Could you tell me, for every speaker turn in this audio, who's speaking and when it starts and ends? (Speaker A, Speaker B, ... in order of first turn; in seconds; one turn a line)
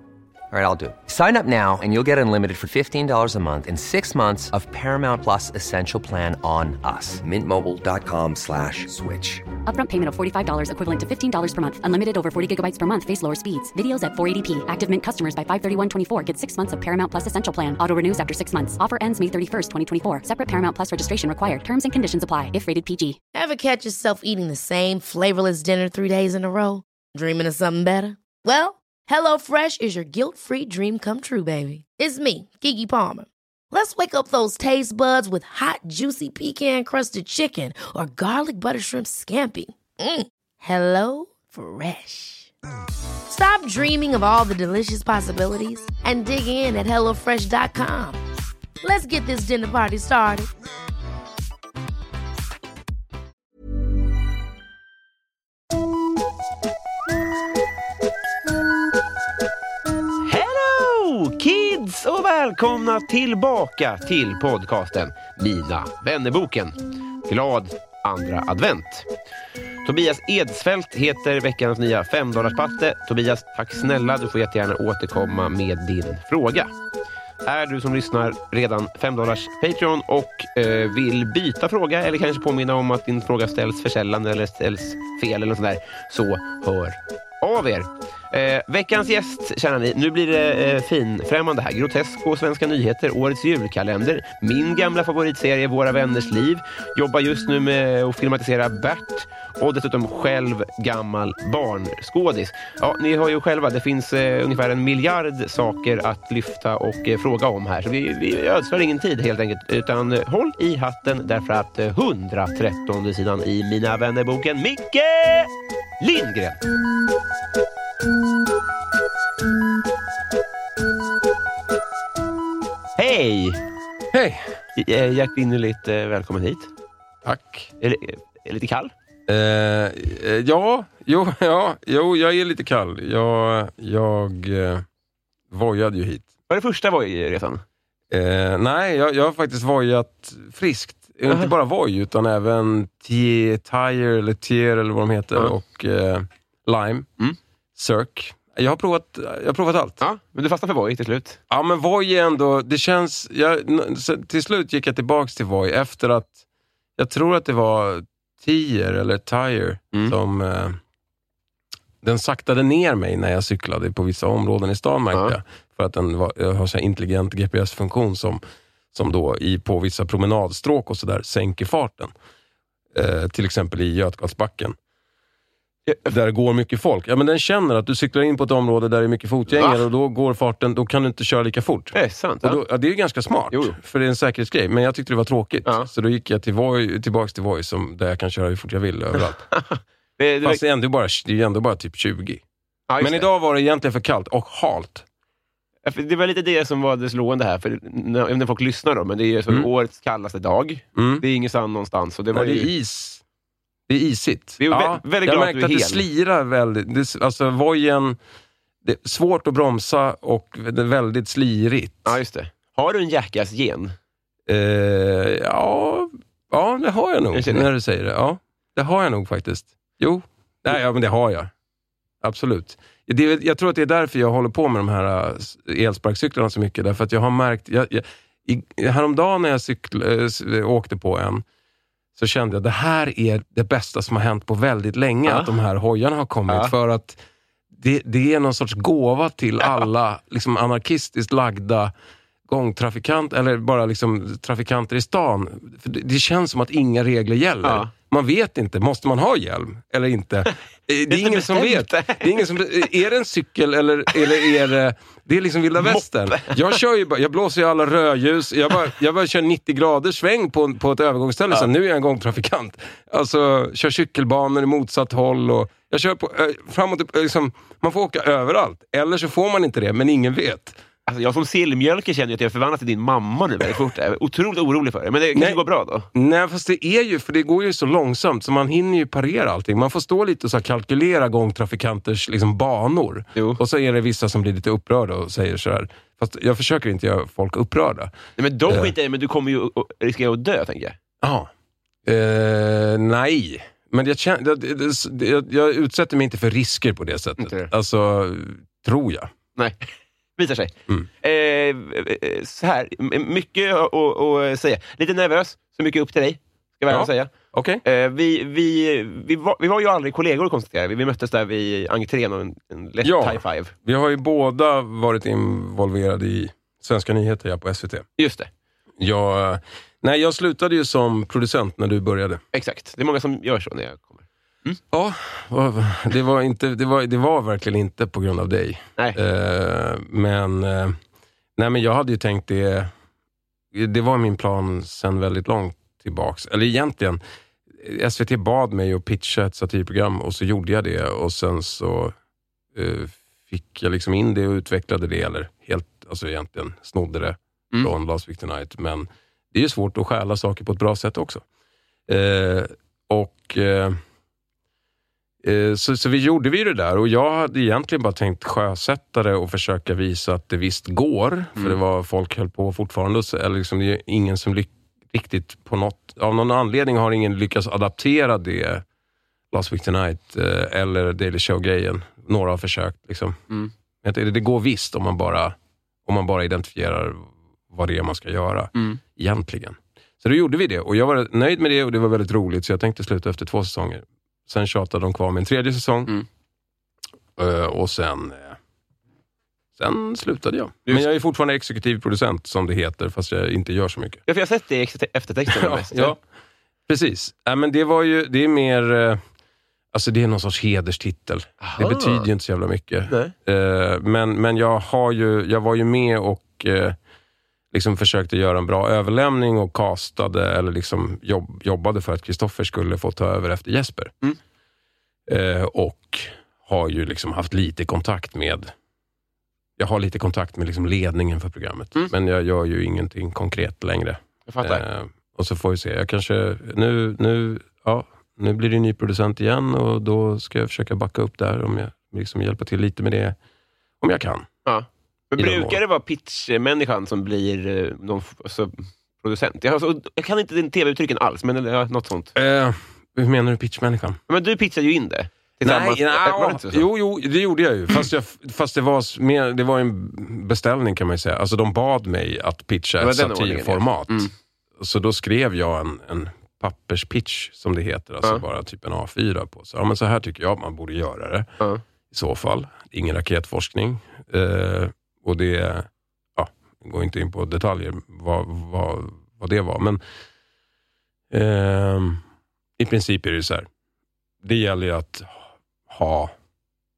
Speaker A: 0.5-9.5
Speaker B: 9.7-23.2
Speaker C: 23.3-42.5
Speaker C: 43.3-48.2
Speaker C: 48.8-50.5
Speaker D: 60.3-69.1
Speaker D: 69.8-76.7
Speaker D: 77.4-116.6
Speaker D: 123.0-123.6
Speaker E: 124.1-124.5
Speaker D: 124.8-126.7
Speaker E: 127.2-127.7
Speaker D: 127.8-128.9
Speaker E: 129.3-134.8
Speaker E: 135.5-136.3
Speaker D: 136.5-137.6
Speaker E: 138.1-147.1
Speaker E: 147.8-150.0
Speaker D: 150.0-151.4
Speaker E: 151.5-156.4
Speaker E: 157.0-160.8
Speaker E: 162.0-168.4
Speaker E: 168.9-172.1
Speaker E: 172.9-174.8
Speaker E: 176.0-189.4
Speaker D: 179.5-179.8
Speaker D: 181.9-182.6
Speaker D: 189.5-190.6
Speaker E: 190.4-192.4
Speaker D: 192.9-193.3
Speaker E: 193.0-195.0
Speaker D: 195.8-202.7
Speaker E: 201.0-201.2
Speaker E: 202.3-203.2
Speaker E: 203.9-208.2
Speaker D: 204.6-206.0
Speaker E: 208.8-212.2
Speaker D: 212.1-213.9
Speaker E: 214.5-221.5
Speaker D: 217.3-217.7
Speaker E: 222.2-231.4
Speaker E: 232.2-241.9
Speaker D: 236.5-236.7
Speaker E: 242.5-270.8
Speaker D: 247.6-247.9
Speaker D: 251.1-252.5
Speaker D: 254.1-254.5
Speaker D: 255.8-256.8
Speaker D: 271.1-276.1
Speaker E: 276.1-288.1
Speaker D: 288.4-291.0
Speaker E: 288.7-288.9
Speaker E: 291.2-291.5
Speaker E: 292.1-299.3
Speaker D: 297.4-297.7
Speaker D: 299.6-307.3
Speaker E: 306.9-307.8
Speaker D: 307.9-313.7
Speaker E: 313.0-318.1
Speaker D: 318.2-318.5
Speaker E: 319.0-322.4
Speaker D: 322.5-324.8
Speaker E: 324.9-331.0
Speaker E: 331.6-332.9
Speaker E: 333.7-337.2
Speaker E: 337.7-342.1
Speaker E: 342.7-351.4
Speaker E: 352.1-354.0
Speaker E: 355.4-368.8
Speaker E: 369.5-373.4
Speaker E: 374.0-386.1
Speaker E: 387.4-388.6
Speaker E: 389.8-394.2
Speaker D: 394.3-396.1
Speaker E: 395.5-396.2
Speaker E: 396.9-399.2
Speaker E: 399.9-407.0
Speaker D: 401.6-402.3
Speaker D: 403.1-403.3
Speaker E: 407.7-414.1
Speaker E: 415.3-418.7
Speaker E: 419.8-433.4
Speaker D: 424.5-424.8
Speaker E: 434.0-434.5
Speaker D: 434.7-442.3
Speaker E: 435.4-435.8
Speaker E: 442.4-444.2
Speaker D: 444.3-446.8
Speaker E: 445.6-461.5
Speaker D: 453.0-454.3
Speaker E: 462.1-470.0
Speaker E: 471.3-472.2
Speaker E: 472.8-473.7
Speaker E: 474.4-476.3